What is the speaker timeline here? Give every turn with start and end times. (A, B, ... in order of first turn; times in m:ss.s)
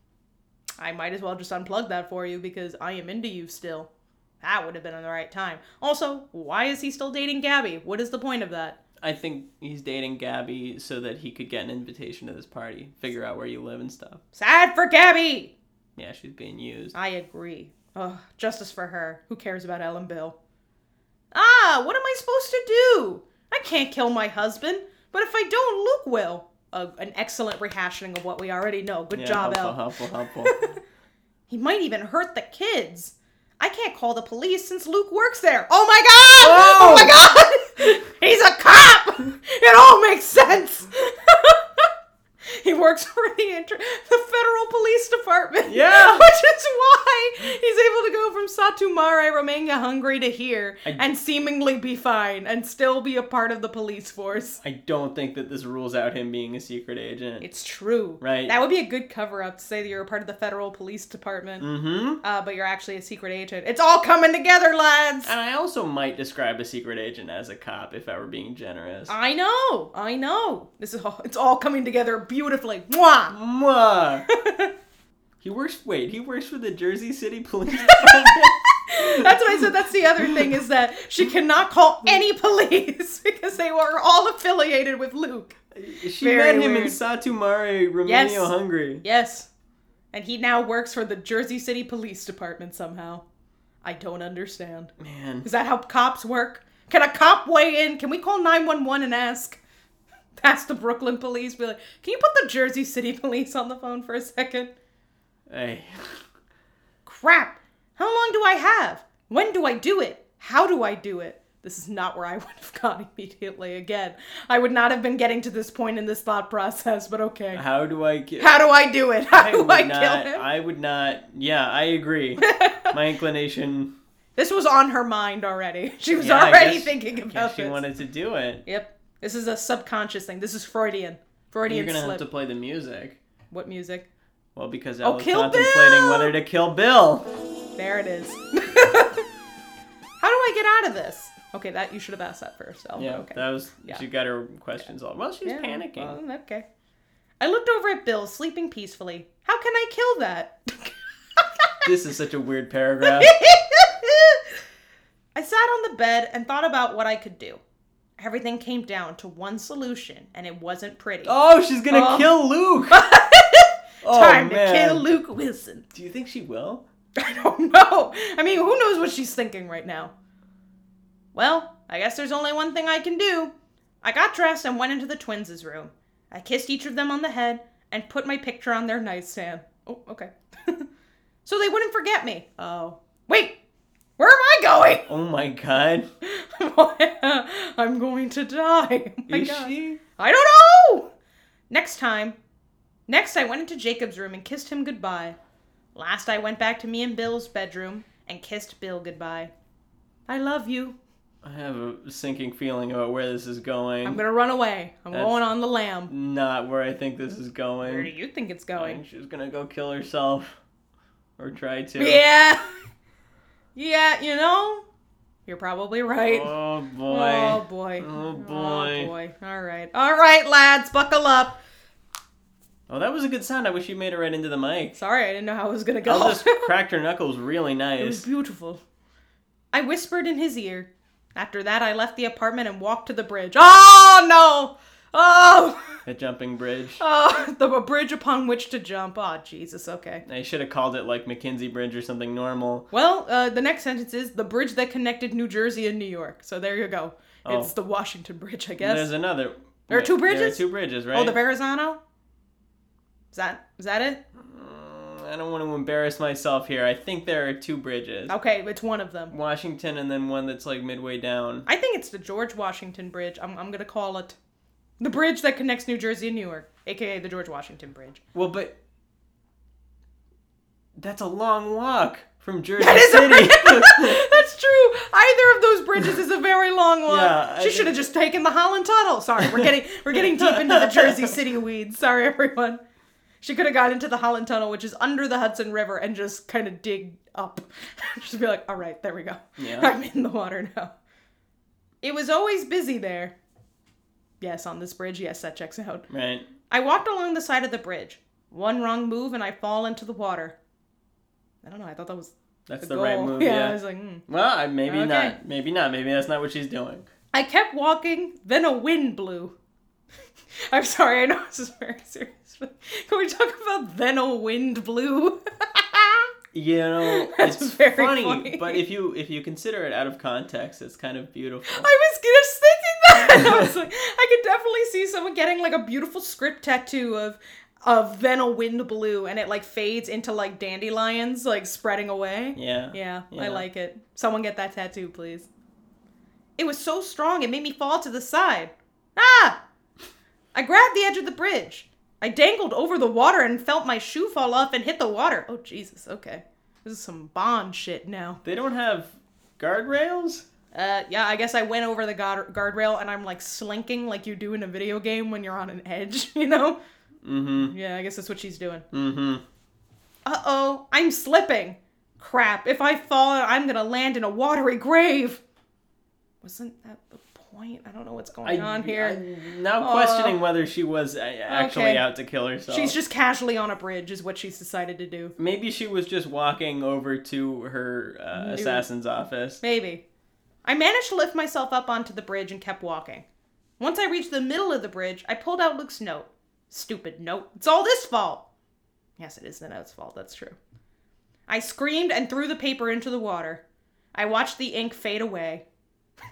0:00.8-0:03.9 A
0:04.4-0:08.8 A
0:09.0-0:14.2 B
0:14.3-0:15.5 A
0:16.0-0:17.0 B
0:16.9-0:20.4 A
0:21.3-0:29.8 A
0:29.1-0:30.6 B
0:30.4-0:30.8 A
0:31.5-0:41.9 A
0:36.4-0:37.2 B
0:42.5-0:54.6 A
0:45.7-0:46.3 B
0:54.6-0:57.5 B
0:57.4-1:01.7 A
0:58.2-0:58.6 B
1:01.6-1:02.2 B
1:02.2-1:05.3 A
1:05.2-1:09.1 B
1:09.1-1:13.4 A
1:13.3-1:14.3 B
1:14.3-1:14.7 A
1:15.4-1:20.6 B
1:17.7-1:25.6 A
1:25.7-1:29.0 B
1:26.2-1:27.0 A
1:28.0-1:29.5 A
1:30.1-1:33.2 A
1:33.8-1:34.9 A
1:35.0-1:35.5 B
1:35.4-1:39.6 A
1:40.4-1:44.7 A
1:45.5-1:46.2 B
1:47.1-1:57.6 A
1:57.5-1:58.5 B
1:58.4-2:00.4 A
1:59.3-2:03.9 B
2:02.4-2:03.0 A
2:04.4-2:07.8 A
2:06.2-2:08.6 B
2:08.7-2:12.3 A
2:11.7-2:13.2 B
2:13.5-2:14.1 A
2:14.6-2:17.3 B
2:15.0-2:16.3 A
2:17.8-2:19.3 A
2:20.2-2:24.0 A
2:23.0-2:26.2 B
2:25.4-2:26.7 A
2:27.4-2:31.9 A
2:31.8-2:33.4 B
2:33.0-2:34.4 A
2:35.4-2:37.6 A
2:38.2-2:41.4 A
2:41.2-2:43.0 B
2:41.9-2:42.3 A
2:42.9-2:45.9 A
2:44.0-2:45.1 B
2:45.9-2:46.9 B
2:47.2-2:50.1 A
2:51.4-3:00.9 A
3:01.4-3:03.6 A
3:04.2-3:05.1 A
3:05.1-3:06.1 B
3:06.2-3:11.1 A
3:09.3-3:10.0 B
3:11.7-3:12.4 A
3:13.1-3:15.4 A
3:16.0-3:19.5 A
3:20.3-3:21.0 A
3:21.4-3:24.2 B
3:24.0-3:26.1 A
3:25.1-3:25.4 B
3:26.1-3:28.1 B
3:27.8-3:29.0 A
3:28.8-3:30.6 B
3:31.4-3:32.2 B
3:32.0-3:32.8 A
3:33.8-3:34.8 A
3:35.5-3:36.5 A
3:36.2-3:39.1 B
3:37.1-3:41.6 A
3:42.9-3:45.0 B
3:45.0-3:46.7 A
3:46.0-3:48.3 B
3:48.0-3:48.8 A
3:49.7-3:56.0 A
3:56.1-3:57.0 B
3:57.0-4:00.2 A
4:00.3-4:02.9 B
4:02.9-4:09.1 A
4:07.4-4:07.7 B
4:08.8-4:11.4 B
4:09.9-4:12.0 A
4:13.3-4:14.2 A
4:14.4-4:18.3 B
4:18.3-4:19.3 A
4:19.3-4:21.7 B
4:21.7-4:24.4 A
4:25.0-4:28.2 A
4:28.3-4:28.8 B
4:31.0-4:34.2 B
4:32.8-4:42.8 A
4:37.1-4:38.1 B
4:39.5-4:41.3 B
4:43.4-4:50.9 A
4:49.6-4:49.9 B
4:52.0-4:53.4 A
4:54.4-4:56.1 A
4:56.1-4:56.5 B
4:56.7-5:00.6 A
5:01.6-5:04.2 A
5:02.7-5:07.1 B
5:04.9-5:05.4 A
5:07.3-5:09.5 A
5:10.7-5:16.3 A
5:16.5-5:21.9 B
5:17.0-5:18.8 A
5:21.7-5:35.5 A
5:23.4-5:23.7 B
5:32.6-5:33.7 B
5:36.6-5:39.6 A
5:40.5-5:48.4 A
5:48.4-5:50.5 B
5:50.7-5:56.8 A
5:57.2-5:57.7 B
5:57.6-5:58.9 A
5:58.9-5:59.4 B
6:00.2-6:05.4 A
6:06.4-6:09.2 A
6:08.4-6:13.0 B
6:09.8-6:10.4 A
6:11.5-6:12.0 A
6:12.7-6:15.3 A
6:15.4-6:19.6 B
6:18.3-6:18.9 A
6:19.6-6:20.0 A
6:20.6-6:23.2 A
6:23.8-6:28.5 A
6:29.2-6:30.6 A
6:31.5-6:33.6 A
6:34.2-6:35.6 A